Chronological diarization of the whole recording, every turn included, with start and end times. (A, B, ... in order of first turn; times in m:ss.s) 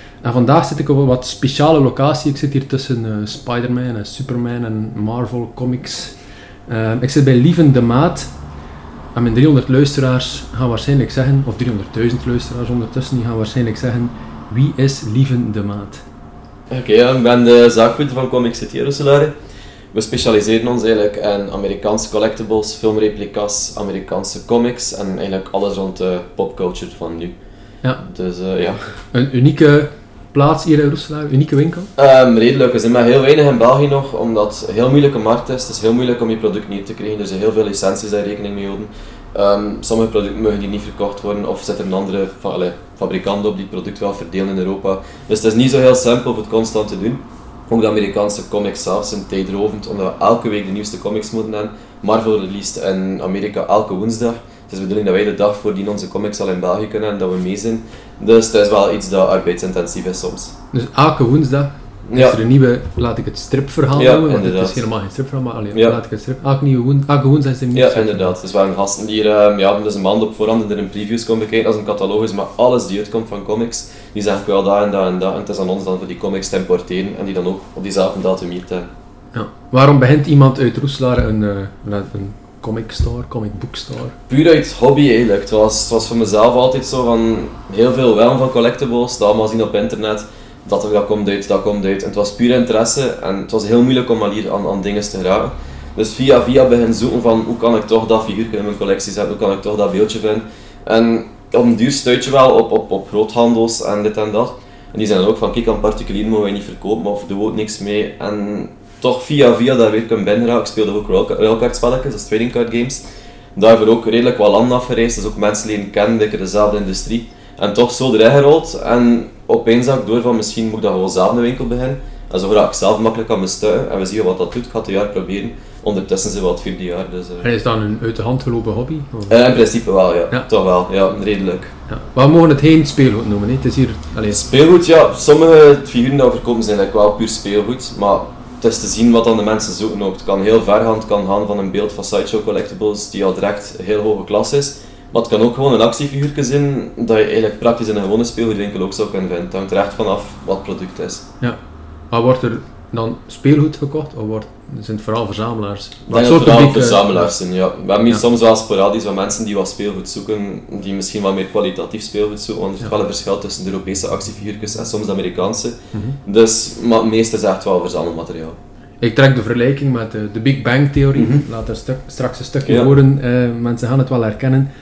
0:00.2-0:08.3 A
0:09.2-0:16.0 A
0:16.7-0:19.4 B
0:19.9-0:27.4 B
0:28.0-0:29.0 B
0:29.1-0:31.9 A
0:32.0-1:00.5 B
1:00.7-1:08.3 A
1:02.1-1:02.4 B
1:04.0-1:04.8 B
1:05.7-1:06.0 B
1:07.7-1:18.9 B
1:19.3-1:24.2 A
1:24.3-1:53.0 B
1:53.6-2:07.5 B
2:07.4-2:09.4 A
2:09.3-2:11.7 B
2:11.9-2:14.4 A
2:14.3-2:31.3 B
2:32.1-2:37.3 A
2:36.1-2:48.6 B
2:45.9-2:46.2 A
2:49.0-2:54.7 A
2:51.2-2:51.5 B
2:52.7-2:52.9 B